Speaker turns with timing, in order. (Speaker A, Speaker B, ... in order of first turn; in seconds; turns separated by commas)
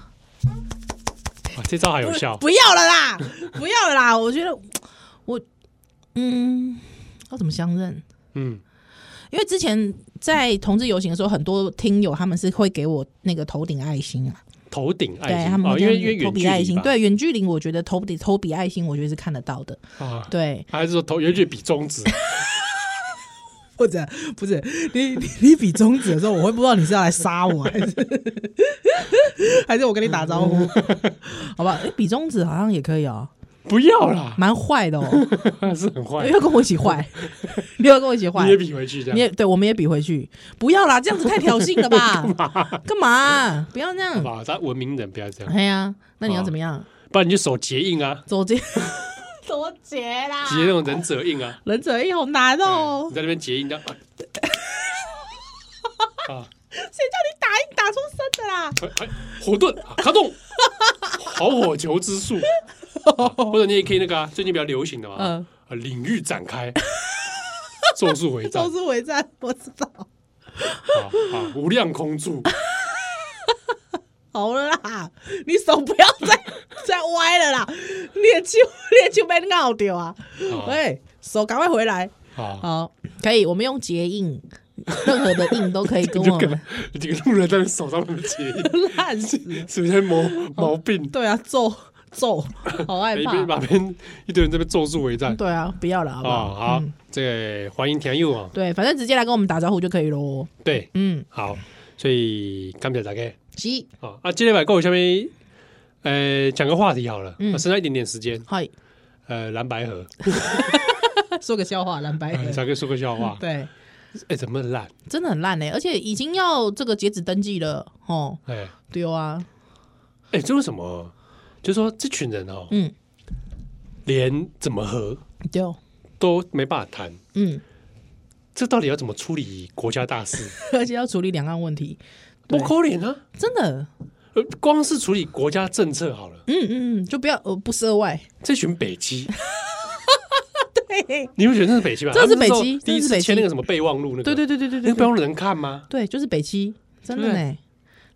Speaker A: 1.6-2.4, Speaker B: 2.0-5.5, Speaker B: 6.2-8.0, Speaker A: 8.3-8.6, Speaker B: 9.3-14.4, Speaker A: 14.7-16.9, Speaker B: 15.3-20.7, Speaker A: 20.0-22.1, Speaker B: 22.1-22.7, Speaker B: 23.8-33.3, Speaker A: 30.1-31.2, Speaker A: 33.7-34.4, Speaker B: 34.4-35.3, Speaker A: 35.1-37.6, Speaker B: 36.2-44.3, Speaker A: 38.4-39.2, Speaker A: 41.4-42.8, Speaker A: 44.1-45.5, Speaker B: 45.5-46.9, Speaker A: 46.2-46.5, Speaker A: 47.0-48.3, Speaker B: 48.3-50.8, Speaker A: 50.5-51.6, Speaker B: 51.6-53.2, Speaker A: 52.7-54.0, Speaker B: 54.4-55.1, Speaker B: 56.7-58.9, Speaker A: 58.8-60.4, Speaker B: 60.8-61.1, Speaker A: 61.2-62.5, Speaker B: 63.0-63.6, Speaker A: 63.2-66.8, Speaker B: 65.2-65.5, Speaker B: 67.8-70.1, Speaker A: 68.0-68.7, Speaker B: 70.6-71.3, Speaker A: 70.9-72.5, Speaker B: 72.5-73.5, Speaker B: 74.3-86.7, Speaker A: 80.5-80.8, Speaker A: 82.3-82.7, Speaker A: 85.0-91.1, Speaker B: 88.5-89.7, Speaker B: 90.3-93.5, Speaker A: 93.1-95.4, Speaker B: 95.3-96.9, Speaker A: 96.2-98.5, Speaker B: 98.5-101.3, Speaker A: 100.6-103.4, Speaker B: 103.5-103.9, Speaker A: 104.0-105.3, Speaker A: 106.0-108.5, Speaker B: 107.4-107.7, Speaker B: 108.5-108.7, Speaker A: 109.3-110.8, Speaker B: 110.4-112.7, Speaker A: 112.3-113.4, Speaker B: 113.2-113.7, Speaker A: 114.2-114.9, Speaker B: 115.1-119.5, Speaker A: 118.5-118.7, Speaker A: 120.3-122.7, Speaker A: 124.1-125.2, Speaker B: 125.5-125.8, Speaker A: 126.2-127.2, Speaker B: 127.3-127.6, Speaker A: 128.6-130.6, Speaker B: 130.5-132.7, Speaker A: 132.5-133.2, Speaker B: 133.3-133.9, Speaker A: 134.3-136.4, Speaker B: 136.5-138.3, Speaker A: 138.4-139.3, Speaker B: 139.5-141.3, Speaker A: 141.4-145.9, Speaker B: 142.1-143.5, Speaker B: 144.2-145.1, Speaker B: 145.9-147.6, Speaker A: 147.1-147.4